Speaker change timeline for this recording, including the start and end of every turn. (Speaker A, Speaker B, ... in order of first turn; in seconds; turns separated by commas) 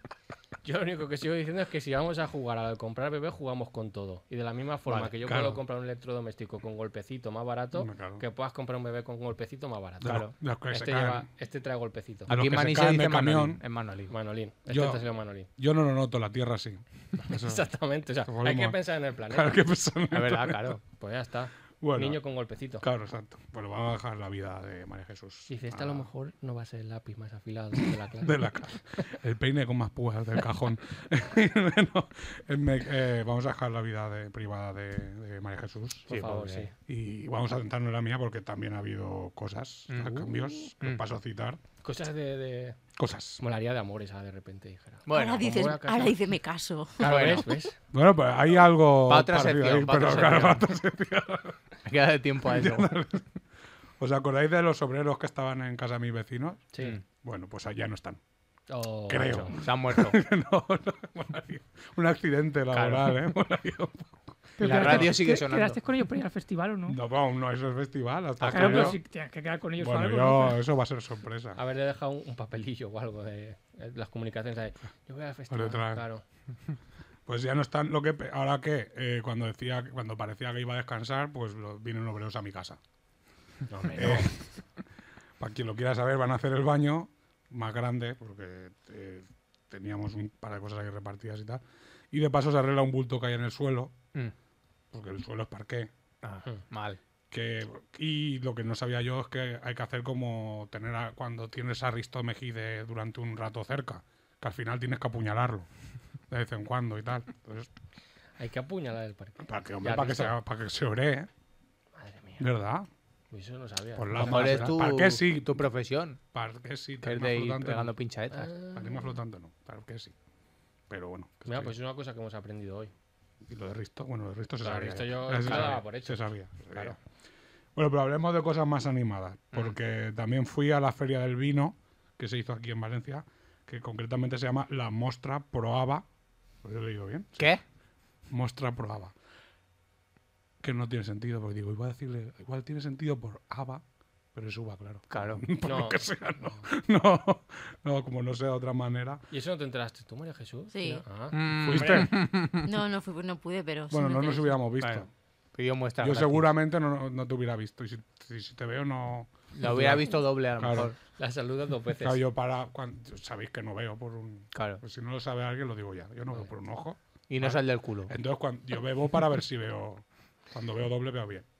Speaker A: 0.6-12.3, Speaker B: 5.2-5.6, Speaker B: 7.8-8.2, Speaker B: 10.0-11.3, Speaker C: 10.0-10.3, Speaker C: 12.3-14.1, Speaker B: 12.3-13.6, Speaker A: 14.1-15.5, Speaker B: 14.7-17.6, Speaker A: 17.3-19.6, Speaker B: 18.3-20.8, Speaker C: 20.1-20.8, Speaker A: 21.0-22.9, Speaker B: 21.8-22.2, Speaker B: 22.8-26.1, Speaker A: 25.5-29.1, Speaker B: 28.2-36.1, Speaker A: 36.1-36.7, Speaker C: 36.1-36.7, Speaker B: 36.9-41.6, Speaker C: 39.9-41.0, Speaker A: 41.8-42.8, Speaker B: 43.0-43.4, Speaker A: 43.4-46.2, Speaker C: 45.1-45.8, Speaker D: 45.1-47.4, Speaker A: 47.0-47.8, Speaker C: 47.0-47.5, Speaker B: 47.9-51.6, Speaker C: 49.0-50.7, Speaker A: 50.2-50.4, Speaker C: 51.9-53.0, Speaker B: 52.4-53.2, Speaker B: 54.0-56.7, Speaker B: 57.2-58.2, Speaker A: 58.7-59.6, Speaker B: 59.1-65.1, Speaker C: 59.3-60.2, Speaker C: 62.7-63.3, Speaker E: 64.6-67.0, Speaker C: 64.6-65.8, Speaker B: 66.9-69.0, Speaker C: 68.4-69.0, Speaker E: 68.5-70.6, Speaker B: 69.8-71.6, Speaker A: 71.5-76.2, Speaker B: 75.5-76.0, Speaker B: 77.3-82.8, Speaker A: 83.7-84.3, Speaker C: 83.9-84.3, Speaker B: 83.9-84.4, Speaker B: 85.4-94.0, Speaker B: 94.9-95.9, Speaker C: 96.2-97.0, Speaker B: 97.3-105.7, Speaker B: 106.3-107.7, Speaker A: 108.4-110.4, Speaker B: 109.4-111.3, Speaker A: 112.0-112.5, Speaker B: 112.4-112.9, Speaker A: 113.3-114.8, Speaker B: 114.0-115.6, Speaker C: 114.2-116.2, Speaker B: 116.3-117.9, Speaker C: 117.0-118.5, Speaker A: 118.3-119.2, Speaker B: 118.7-120.1, Speaker B: 120.9-121.7, Speaker A: 121.5-122.9, Speaker B: 123.5-127.0, Speaker A: 124.6-127.0, Speaker C: 125.5-125.8, Speaker B: 127.8-136.1, Speaker B: 136.6-137.6, Speaker B: 138.3-139.2, Speaker B: 140.6-143.8, Speaker B: 144.3-149.2, Speaker C: 145.1-145.4, Speaker A: 145.6-146.7, Speaker A: 149.3-152.0, Speaker D: 150.7-151.0, Speaker C: 151.3-152.7, Speaker B: 151.5-152.3, Speaker D: 152.6-154.6, Speaker B: 153.9-155.1, Speaker C: 154.8-156.6, Speaker B: 156.0-160.9, Speaker C: 159.5-161.0, Speaker A: 161.2-162.2, Speaker B: 162.0-171.5, Speaker C: 164.5-164.8, Speaker C: 167.3-168.1